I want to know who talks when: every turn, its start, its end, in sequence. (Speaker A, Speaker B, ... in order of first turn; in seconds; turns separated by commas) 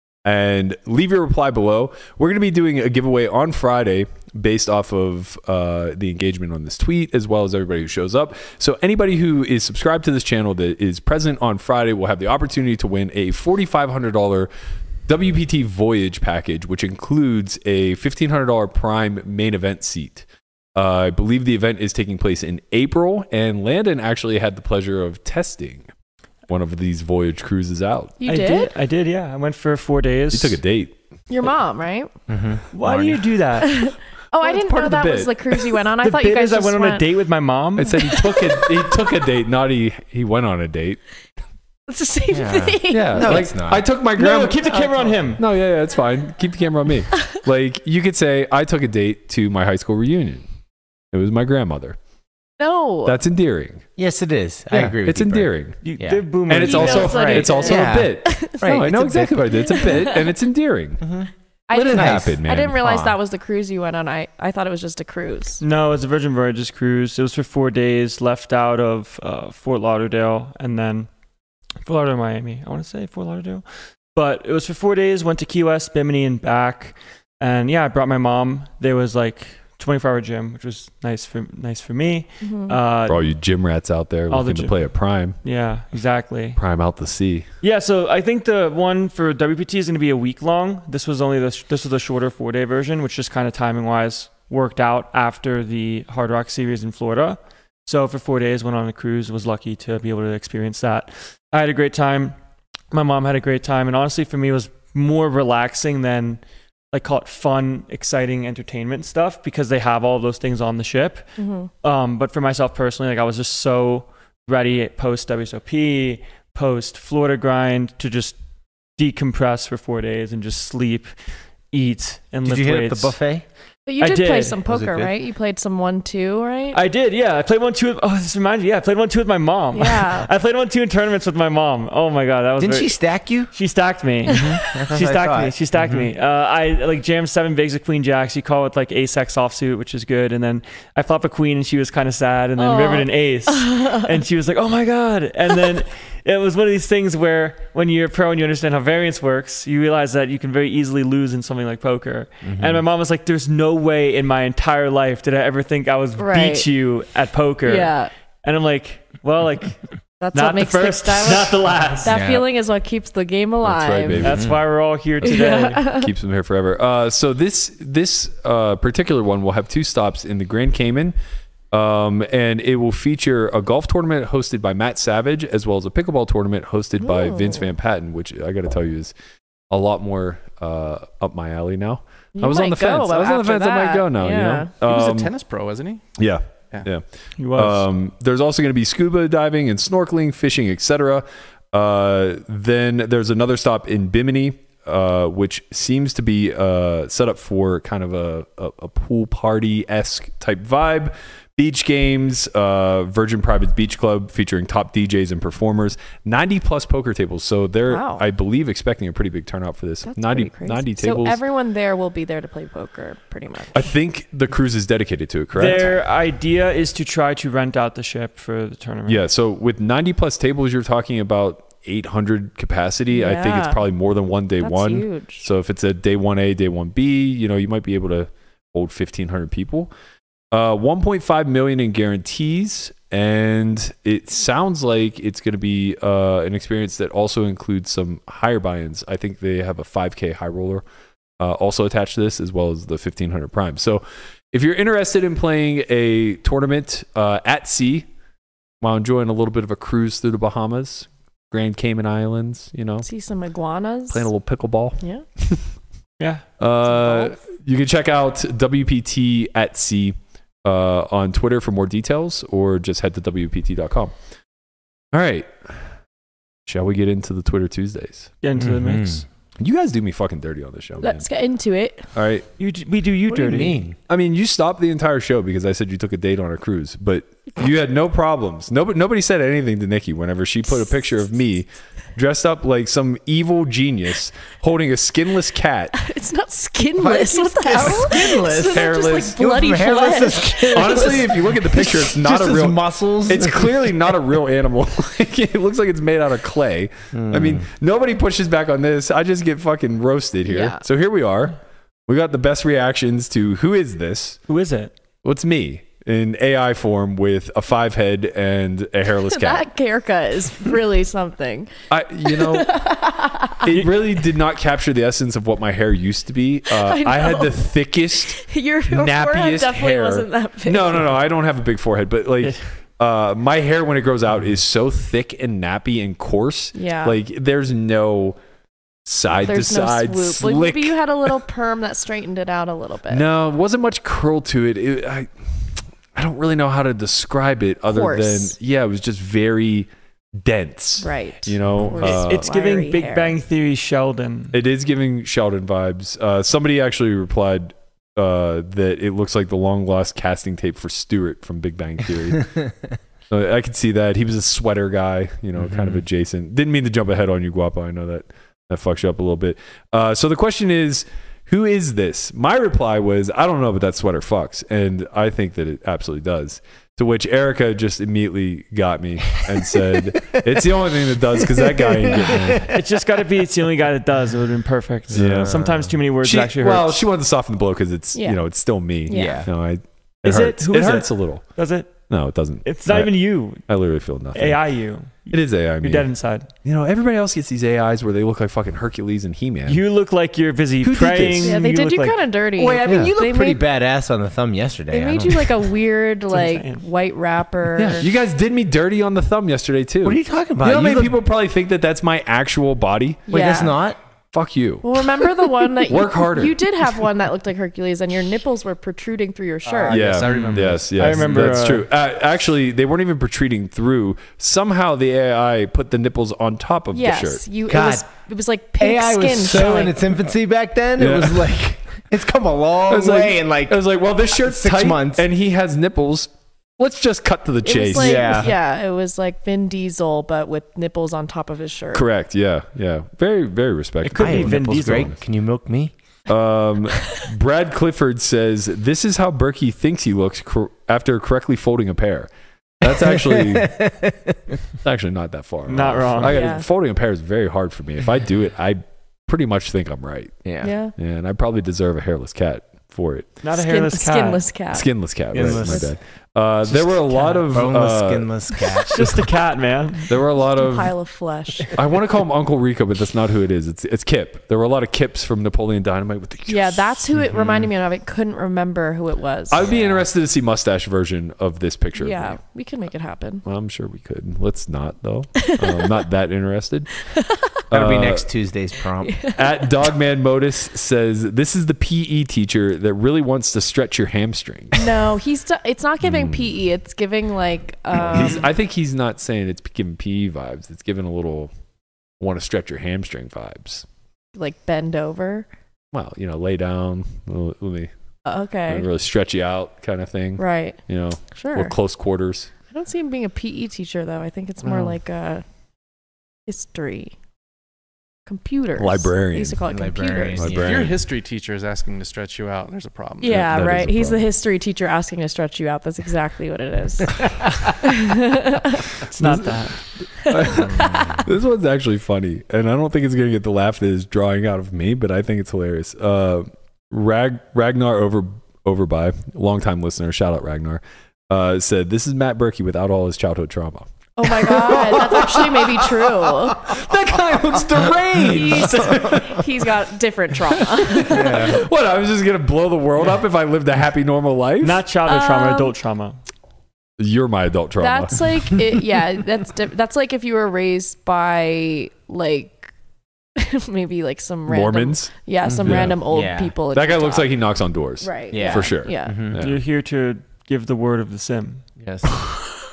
Speaker A: 0.2-14.5, Speaker A: 15.1-25.9, Speaker A: 26.5-28.2, Speaker B: 28.2-28.7, Speaker C: 28.3-30.6, Speaker A: 30.3-30.9, Speaker B: 31.3-32.1, Speaker D: 32.3-33.2, Speaker C: 32.7-33.9, Speaker B: 33.7-37.0, Speaker A: 34.4-35.6, Speaker C: 36.0-38.1, Speaker A: 37.8-41.0, Speaker B: 38.3-38.6, Speaker B: 41.9-43.5, Speaker D: 42.3-43.9, Speaker A: 42.9-50.5, Speaker C: 44.1-45.4, Speaker A: 51.1-52.0, Speaker B: 52.6-53.2, Speaker A: 53.0-53.8, Speaker D: 54.0-56.3, Speaker A: 54.8-55.8, Speaker C: 55.8-57.5, Speaker A: 56.5-61.0, Speaker B: 56.6-58.6, Speaker D: 57.5-59.6, Speaker B: 59.7-60.3, Speaker D: 61.0-61.3, Speaker B: 61.7-65.6, Speaker A: 61.7-62.8, Speaker D: 61.9-63.2, Speaker C: 65.6-71.1, Speaker C: 71.8-83.3, Speaker B: 82.4-82.8, Speaker A: 83.0-85.3, Speaker C: 84.3-86.6, Speaker A: 86.5-87.5, Speaker C: 87.6-102.3, Speaker C: 102.9-111.3, Speaker B: 111.4-111.7, Speaker C: 111.8-118.3, Speaker C: 119.0-121.1, Speaker C: 121.7-123.1, Speaker D: 122.4-123.4, Speaker B: 123.8-126.8, Speaker C: 124.0-124.6, Speaker D: 124.7-125.1, Speaker C: 126.7-159.8, Speaker B: 129.7-130.3, Speaker D: 132.6-133.5, Speaker D: 134.3-136.0, Speaker B: 134.5-134.8, Speaker B: 142.6-144.1, Speaker D: 152.4-152.8, Speaker B: 156.2-156.7, Speaker B: 157.7-158.1, Speaker B: 160.2-164.2, Speaker C: 160.3-162.1, Speaker D: 162.1-162.4, Speaker A: 163.6-164.5, Speaker C: 164.2-165.8, Speaker D: 164.2-164.6, Speaker A: 165.2-171.2, Speaker B: 165.2-166.1, Speaker A: 171.7-179.1, Speaker B: 177.0-177.7, Speaker A: 179.7-185.3, Speaker B: 182.3-184.7, Speaker E: 184.8-186.0, Speaker A: 186.2-211.4, Speaker C: 187.4-187.8, Speaker B: 207.9-208.2, Speaker B: 210.1-213.9, Speaker A: 213.7-215.9, Speaker C: 215.5-219.2, Speaker A: 219.1-229.9, Speaker B: 223.1-223.8, Speaker B: 224.6-225.5, Speaker A: 230.5-240.8, Speaker A: 241.4-248.1, Speaker A: 248.8-253.1, Speaker B: 253.0-254.3, Speaker A: 254.1-255.6, Speaker A: 256.6-264.1, Speaker B: 256.9-257.4, Speaker A: 265.1-265.8, Speaker A: 266.6-268.3, Speaker C: 268.4-269.2, Speaker D: 268.6-269.2, Speaker A: 269.6-271.2, Speaker B: 271.0-272.1, Speaker A: 272.1-272.4, Speaker C: 272.6-273.8, Speaker D: 273.3-273.9, Speaker A: 274.1-285.9, Speaker B: 285.9-291.4, Speaker D: 287.0-294.1, Speaker A: 288.6-289.3, Speaker A: 290.7-304.4, Speaker D: 297.1-297.7, Speaker B: 300.4-300.8, Speaker C: 304.5-304.9, Speaker A: 305.2-309.6, Speaker B: 309.3-311.7, Speaker A: 311.9-312.8, Speaker B: 312.2-313.7, Speaker A: 313.6-328.4, Speaker B: 316.7-321.1, Speaker B: 326.7-327.2, Speaker A: 329.1-330.9, Speaker B: 329.4-333.2, Speaker A: 333.1-335.3, Speaker A: 336.1-342.4, Speaker B: 337.9-338.6, Speaker B: 341.0-343.3, Speaker C: 342.0-344.5, Speaker A: 344.5-352.6, Speaker A: 353.3-372.7, Speaker D: 355.6-356.0, Speaker D: 370.2-370.6, Speaker D: 371.3-372.7, Speaker C: 372.6-377.0, Speaker A: 375.1-375.7, Speaker D: 375.1-375.9, Speaker A: 376.2-381.4, Speaker B: 378.1-378.4, Speaker B: 379.1-379.4, Speaker D: 379.1-379.5, Speaker C: 380.2-382.0, Speaker A: 382.1-383.1, Speaker C: 382.6-383.6, Speaker A: 383.7-384.6, Speaker C: 384.3-386.5, Speaker A: 385.3-386.1, Speaker A: 386.6-389.8, Speaker C: 389.7-392.2, Speaker A: 390.8-391.6, Speaker B: 391.4-393.6, Speaker D: 392.6-395.7, Speaker A: 392.8-393.1, Speaker B: 394.9-398.1, Speaker C: 396.3-396.8, Speaker A: 397.8-403.3, Speaker D: 400.0-401.1, Speaker B: 403.3-403.8, Speaker D: 403.3-404.0, Speaker A: 404.3-404.9, Speaker B: 404.8-410.2, Speaker A: 405.8-406.6, Speaker E: 409.6-411.0, Speaker A: 409.9-417.4, Speaker C: 410.4-411.9, Speaker B: 416.9-420.0, Speaker D: 417.7-418.0, Speaker D: 418.8-425.2, Speaker A: 421.0-421.6, Speaker A: 422.9-428.4, Speaker B: 427.6-432.1, Speaker D: 427.9-428.5, Speaker A: 431.9-435.2, Speaker C: 434.0-435.1, Speaker D: 434.2-435.9, Speaker A: 436.3-442.3, Speaker A: 442.8-443.8, Speaker D: 442.8-444.6, Speaker A: 444.8-453.3, Speaker C: 445.7-446.4, Speaker B: 446.2-446.6, Speaker D: 450.4-450.7, Speaker B: 450.6-450.9, Speaker C: 453.4-454.4, Speaker B: 453.5-455.9, Speaker A: 454.7-458.3, Speaker D: 455.3-455.9, Speaker D: 456.7-459.2, Speaker C: 458.8-460.1, Speaker A: 460.1-460.9, Speaker B: 460.4-461.7, Speaker A: 461.7-467.2, Speaker B: 466.5-469.7, Speaker D: 467.3-467.7, Speaker A: 469.5-472.4, Speaker D: 469.7-470.0, Speaker B: 472.0-473.4, Speaker A: 473.4-476.9, Speaker B: 475.4-475.8, Speaker B: 477.1-477.5, Speaker A: 477.7-478.3, Speaker D: 477.7-479.2, Speaker B: 479.0-479.6, Speaker A: 479.4-484.9, Speaker B: 484.8-488.5, Speaker A: 486.0-486.4, Speaker A: 487.9-491.5, Speaker A: 492.2-493.9, Speaker B: 494.3-495.5, Speaker A: 495.9-497.9, Speaker B: 498.2-498.9, Speaker A: 498.7-502.5, Speaker B: 500.4-500.8, Speaker B: 501.3-501.7, Speaker B: 502.7-505.4, Speaker B: 506.5-507.1, Speaker B: 508.2-510.6, Speaker A: 508.8-509.6, Speaker D: 509.7-511.0, Speaker A: 510.4-511.0, Speaker E: 510.5-513.5, Speaker B: 513.2-518.9, Speaker A: 513.2-514.3, Speaker C: 519.1-519.8, Speaker A: 519.2-519.5, Speaker A: 520.2-539.5, Speaker B: 520.2-521.1, Speaker D: 520.9-521.2, Speaker B: 534.2-536.7, Speaker B: 538.2-541.6, Speaker A: 540.5-544.8, Speaker D: 541.1-541.6, Speaker C: 544.6-546.2, Speaker B: 545.0-545.7, Speaker A: 547.0-548.6, Speaker B: 547.8-552.7, Speaker B: 553.4-557.3, Speaker A: 554.5-555.1, Speaker D: 555.5-556.5, Speaker A: 555.6-556.0, Speaker A: 556.7-559.6, Speaker B: 558.0-559.2, Speaker D: 558.3-559.4, Speaker C: 559.4-561.6, Speaker E: 561.8-562.1, Speaker A: 562.1-562.4